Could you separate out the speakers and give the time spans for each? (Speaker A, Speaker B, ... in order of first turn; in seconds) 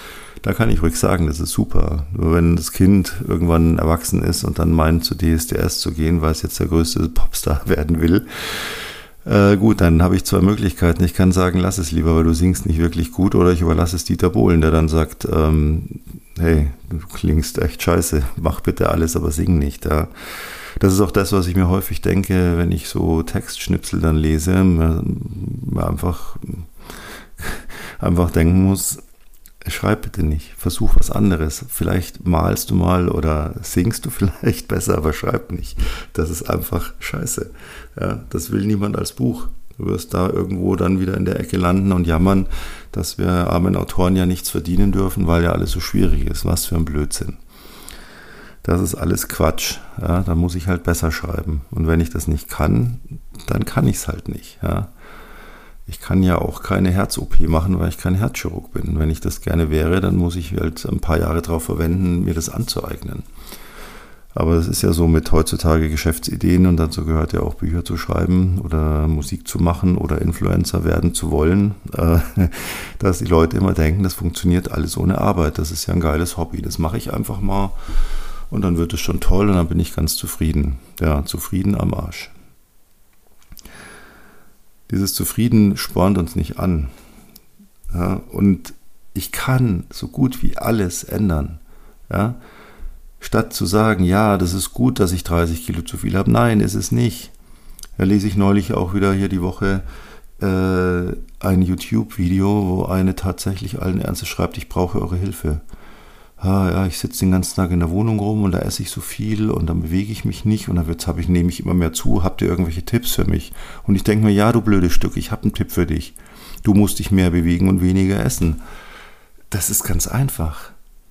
Speaker A: 0.4-26.7, 27.4-29.0, 29.6-47.4, 48.6-54.9, 55.9-63.3, 64.3-82.3, 84.9-86.9, 87.9-92.4, 93.2-97.3, 98.0-99.8, 100.4-105.6, 106.4-118.6, 119.5-120.7